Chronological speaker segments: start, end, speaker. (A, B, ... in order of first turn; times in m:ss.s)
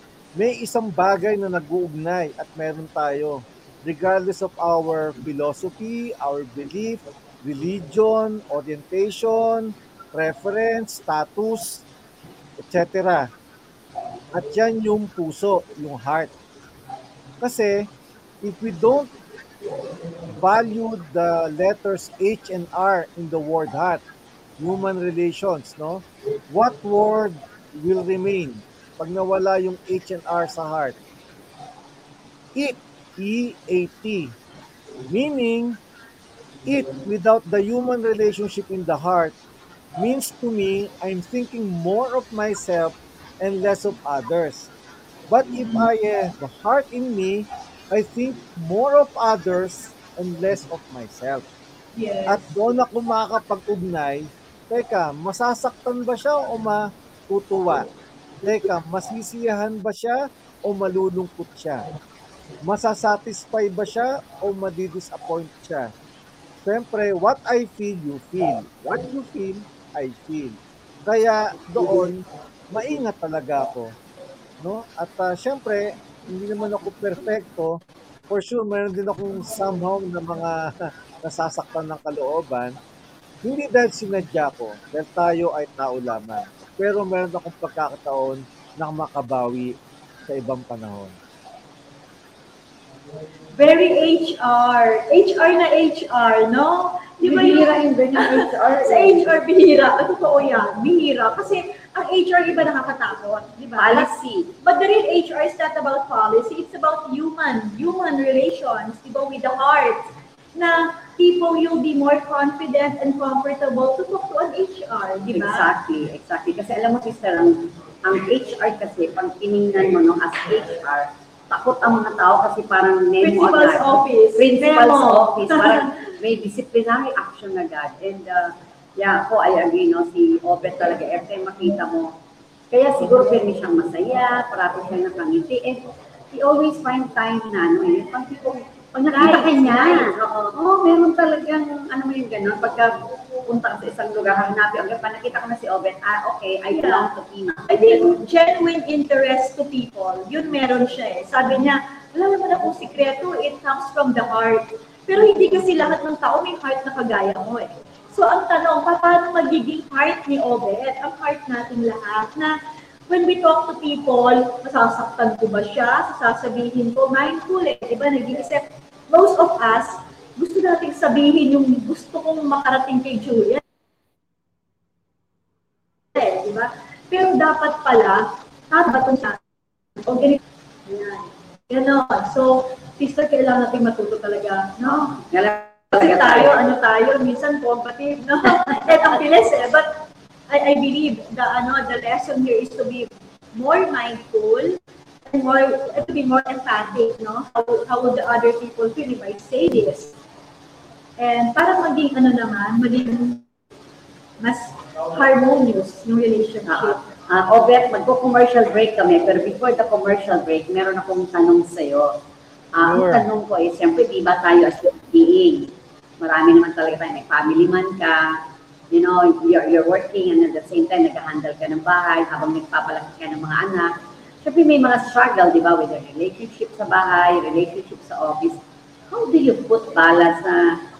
0:00.4-0:11.8 A
0:12.6-0:13.3 A
0:14.3-0:16.3 A
0:17.4-0:17.9 A
0:18.4-0:19.1 A
0:20.3-0:24.0 A
0:24.6-0:31.0 A
0:32.5-0:34.3 A
0:35.0-0:35.8 A
0:36.6-0:39.3 A
0:40.0-0:44.7 A
0:45.3-0:51.5 A
0:45.5-0:45.8 B
0:52.0-0:52.5 B
0:52.2-0:57.9 A
0:58.4-1:01.8 A
1:02.6-1:05.9 A
1:06.6-1:13.9 A
1:14.6-1:17.8 A
1:18.3-1:22.7 A
1:23.4-1:29.7 A
1:30.3-1:31.2 A
1:33.6-1:44.1 B
1:37.2-1:39.4 C
1:43.8-1:44.5 C
1:44.6-1:55.7 B
1:55.3-2:12.1 C
2:03.2-2:05.9 B
2:12.7-2:28.1 C
2:19.0-2:20.1 B
2:26.7-2:27.1 B
2:27.7-2:42.5 B
2:43.1-2:53.6 B
2:56.1-2:59.4 B
3:00.0-3:05.1 B
3:04.8-3:06.7 C
3:05.9-3:14.8 B
3:15.3-3:20.1 B
3:21.2-3:23.4 B
3:24.4-3:27.0 B
3:26.7-3:32.2 C
3:32.7-3:38.4 C
3:32.8-3:33.3 A
3:38.9-3:50.8 C